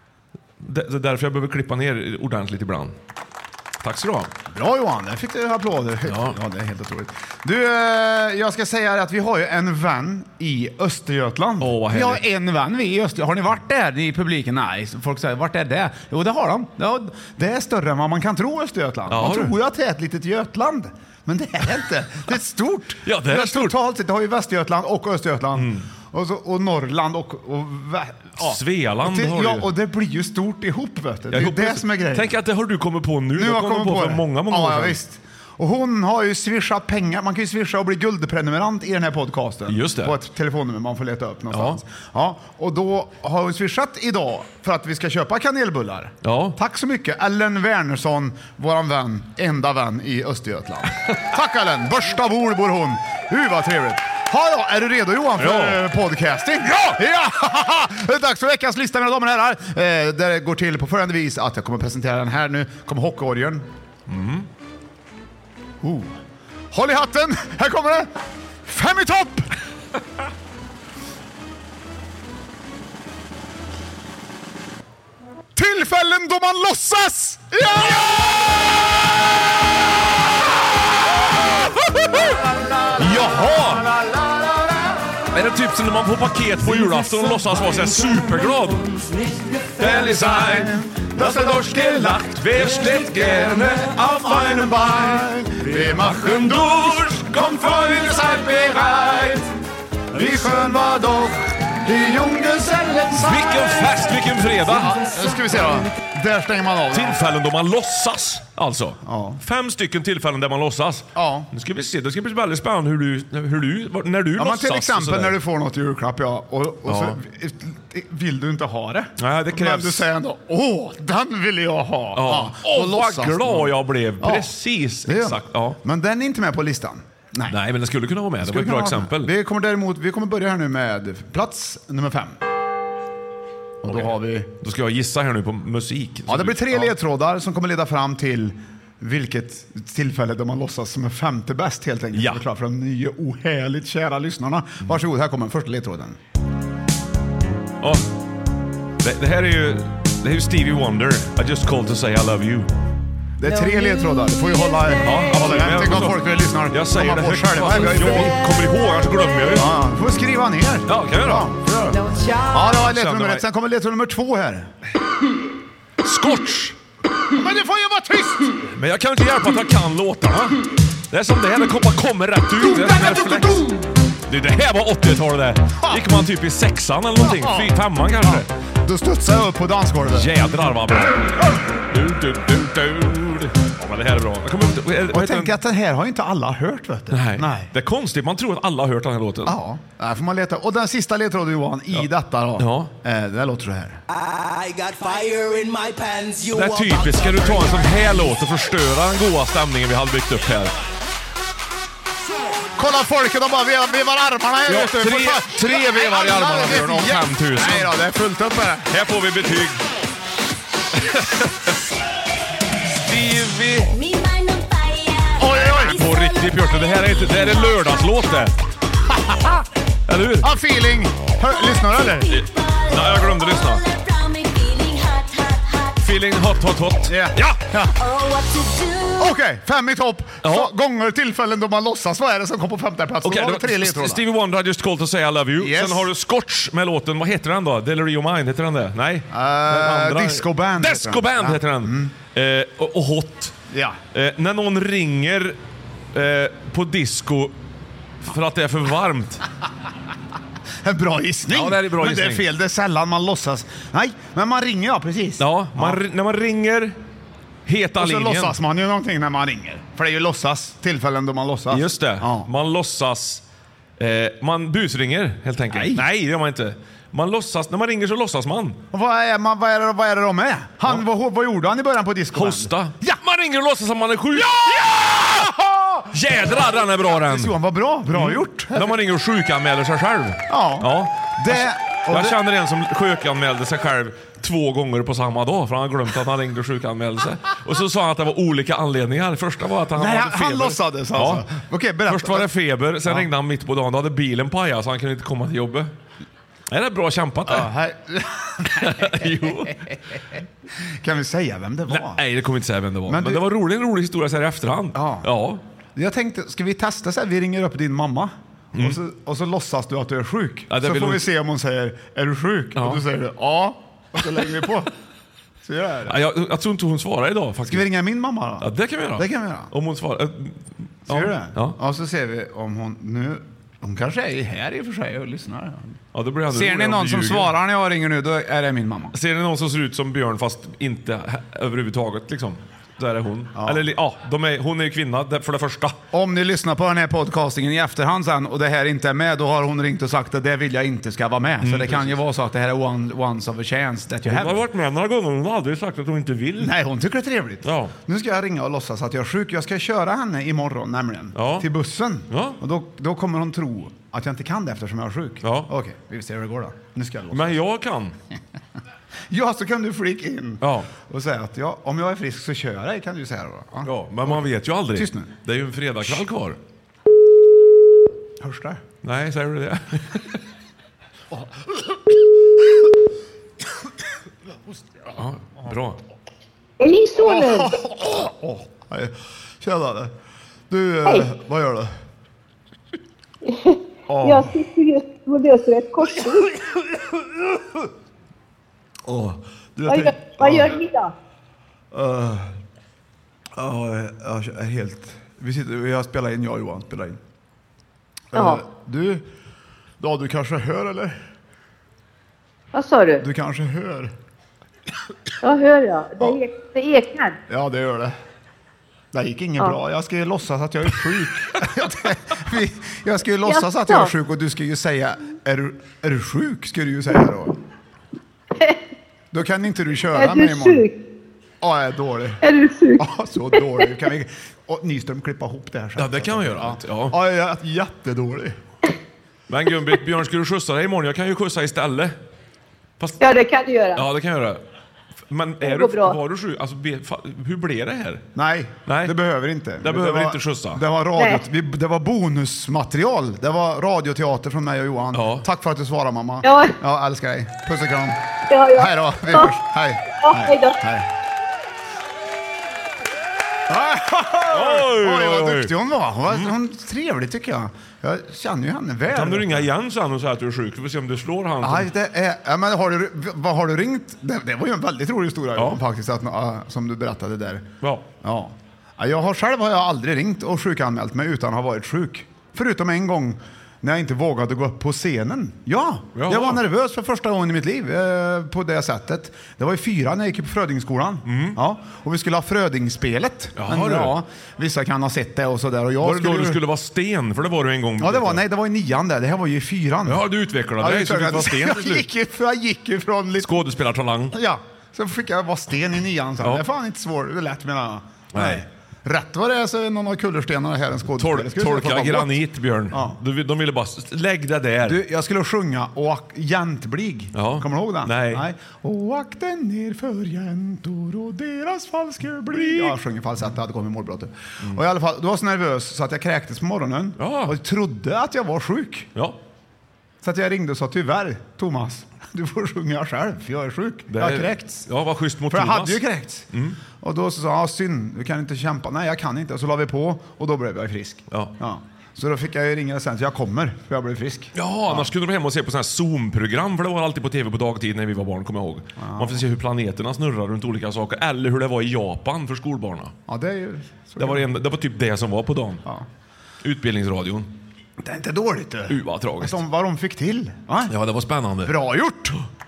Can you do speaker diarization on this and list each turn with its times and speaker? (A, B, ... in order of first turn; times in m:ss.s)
0:00.6-0:03.0 A
0:03.8-0:04.3 A
0:04.5-0:32.4 B
0:06.1-0:06.4 A
0:11.6-0:12.2 A
0:19.1-0:19.6 A
0:23.0-0:23.8 A
0:25.6-0:25.9 A
0:28.4-0:29.7 A
0:31.3-0:35.0 A
0:33.4-1:03.7 B
0:39.7-0:40.2 A
0:41.5-0:41.8 A
0:46.2-0:46.6 A
0:55.4-0:55.8 A
1:04.1-1:04.5 A
1:05.8-1:06.2 B
1:06.7-1:08.1 B
1:08.7-1:09.5 B
1:15.6-1:18.4 B
1:21.8-1:22.4 A
1:22.3-1:25.0 B
1:23.0-1:23.9 A
1:25.3-1:28.9 A
1:26.8-1:27.3 B
1:29.8-1:35.1 A
1:29.8-1:39.5 B
1:35.7-1:37.9 A
1:40.1-1:44.1 B
1:43.1-1:45.0 A
1:44.6-1:47.4 B
1:46.9-1:55.4 A
1:49.0-1:49.4 B
1:51.2-1:51.5 B
1:54.4-2:04.5 B
1:56.9-1:57.2 A
1:59.2-2:00.1 A
2:02.2-2:05.8 A
2:05.1-2:07.6 B
2:07.5-2:09.3 A
2:08.4-2:12.4 B
2:13.8-2:14.5 B
2:13.9-2:16.9 A
2:16.3-2:26.2 B
2:22.2-2:22.4 A
2:29.0-2:32.7 A
2:33.4-2:38.4 B
2:35.0-2:39.7 A
2:39.6-2:42.0 B
2:40.9-2:41.6 A
2:42.5-2:44.7 B
2:42.6-2:43.4 A
2:46.0-2:46.8 A
2:47.3-2:48.6 B
2:48.8-2:53.7 A
2:52.6-2:53.8 B
2:54.3-2:58.5 A
2:57.2-3:00.3 B
3:00.1-3:01.4 A
3:01.9-3:05.6 A
3:05.1-3:07.7 B
3:07.1-3:09.6 A
3:09.5-3:14.0 B
3:12.6-3:12.9 A
3:14.1-3:18.0 C
3:16.5-3:20.7 A
3:22.8-3:28.9 B
3:24.7-3:27.9 A
3:28.9-3:29.8 A
3:30.9-3:31.7 A
3:32.9-3:34.0 A
3:33.9-3:38.5 D
3:35.4-3:36.0 B
3:35.9-3:38.5 A
3:39.1-3:39.6 B
3:40.1-3:40.5 A
3:40.4-3:42.3 B
3:41.7-3:46.2 D
3:42.3-3:43.8 A
3:46.0-3:47.6 A
3:47.1-3:48.0 B
3:48.0-3:49.4 D
3:49.2-3:54.2 B
3:50.4-3:50.7 A
3:53.2-4:03.6 A
3:55.6-3:56.1 B
3:59.3-4:02.1 B
4:03.7-4:04.0 B
4:04.1-4:05.6 A
4:06.1-4:07.5 A
4:08.2-4:09.4 A
4:10.8-4:16.0 B
4:11.5-4:12.5 A
4:15.4-4:17.0 A
4:17.7-4:18.6 A
4:18.0-4:22.5 B
4:21.7-4:23.4 A
4:24.0-4:28.8 A
4:25.7-4:26.1 B
4:28.9-4:32.7 B
4:32.3-4:35.2 A
4:34.4-4:36.2 B
4:36.1-4:37.6 A
4:37.2-4:39.0 B
4:38.1-4:51.5 A
4:40.5-4:42.4 B
4:50.0-4:52.5 B
4:52.1-4:55.9 A
4:56.7-4:57.7 A
4:57.5-4:59.2 B
4:58.7-4:59.9 A
5:00.8-5:02.2 B
5:01.9-5:05.6 A
5:03.1-5:03.5 B
5:04.9-5:05.3 B
5:06.0-5:14.9 B
5:08.8-5:09.0 A
5:10.7-5:11.2 A
5:12.8-5:13.0 A
5:15.6-5:16.2 B
5:16.1-5:17.9 A
5:17.7-5:19.7 B
5:18.6-5:21.8 A
5:21.1-5:26.0 B
5:26.1-5:27.5 A
5:26.5-5:29.2 B
5:29.1-5:36.0 A
5:33.6-5:33.8 B
5:36.1-5:44.6 B
5:41.6-5:42.2 A
5:44.2-5:46.8 A
5:46.6-5:57.6 B
5:47.6-5:47.9 A
5:51.4-5:51.7 A
5:52.3-5:52.6 A
5:55.4-5:55.7 A
5:57.3-5:58.2 A
5:59.3-6:05.4 B
6:00.6-6:00.9 A
6:03.8-6:06.6 A
6:08.4-6:08.8 B
6:09.0-6:10.4 A
6:15.2-6:16.0 A
6:16.8-6:17.8 E
6:17.2-6:20.1 B
6:20.7-6:21.9 B
6:23.4-6:26.5 E
6:24.1-6:24.6 B
6:29.1-6:30.8 B
6:29.9-6:31.1 E
6:31.9-6:32.6 B
6:33.6-6:37.2 B
6:38.3-6:39.3 B
6:38.3-6:38.6 E
6:40.0-6:41.2 B
6:42.7-6:43.2 E
6:43.2-6:44.1 B
6:45.4-6:47.4 E
6:47.5-6:48.2 B
6:49.1-6:57.6 B
6:53.5-6:54.1 E
6:59.3-7:00.8 B
7:00.1-7:01.0 E
7:01.6-7:02.4 B
7:02.4-7:03.0 E
7:03.0-7:08.6 B
7:03.6-7:03.9 E
7:06.0-7:07.2 A
7:09.5-7:12.1 A
7:13.2-7:14.1 E
7:13.9-7:14.6 A
7:15.3-7:18.2 A
7:15.6-7:16.2 E
7:18.4-7:28.2 B
7:18.9-7:19.1 A
7:19.8-7:20.8 A
7:21.2-7:21.4 E
7:25.1-7:25.4 A
7:26.4-7:26.8 E
7:28.5-7:29.5 E
7:28.7-7:31.1 B
7:30.2-7:30.8 E
7:33.7-7:39.7 B
7:34.5-7:35.7 A
7:39.1-7:41.9 A
7:41.6-7:47.7 B
7:48.2-8:06.6 B
7:56.1-7:56.6 A
8:01.3-8:01.6 A
8:03.6-8:04.2 A
8:06.0-8:08.4 A
8:08.0-8:10.2 B
8:10.1-8:12.1 A
8:10.8-8:13.6 B
8:13.4-8:14.4 A
8:14.3-8:23.2 B
8:18.3-8:18.6 A
8:21.2-8:25.0 A
8:24.8-8:39.1 B
8:27.3-8:28.4 A
8:32.5-8:33.0 A
8:37.2-8:37.6 A
8:40.2-8:44.9 B
8:44.1-8:46.8 A
8:45.5-8:46.5 B
8:47.0-8:55.1 B
8:54.6-9:03.1 A
8:59.0-8:59.4 B
9:03.3-9:04.5 B
9:04.2-9:05.8 A
9:06.6-9:07.5 A
9:08.0-9:10.9 B
9:08.9-9:09.6 A
9:10.9-9:11.8 A
9:11.6-9:12.4 B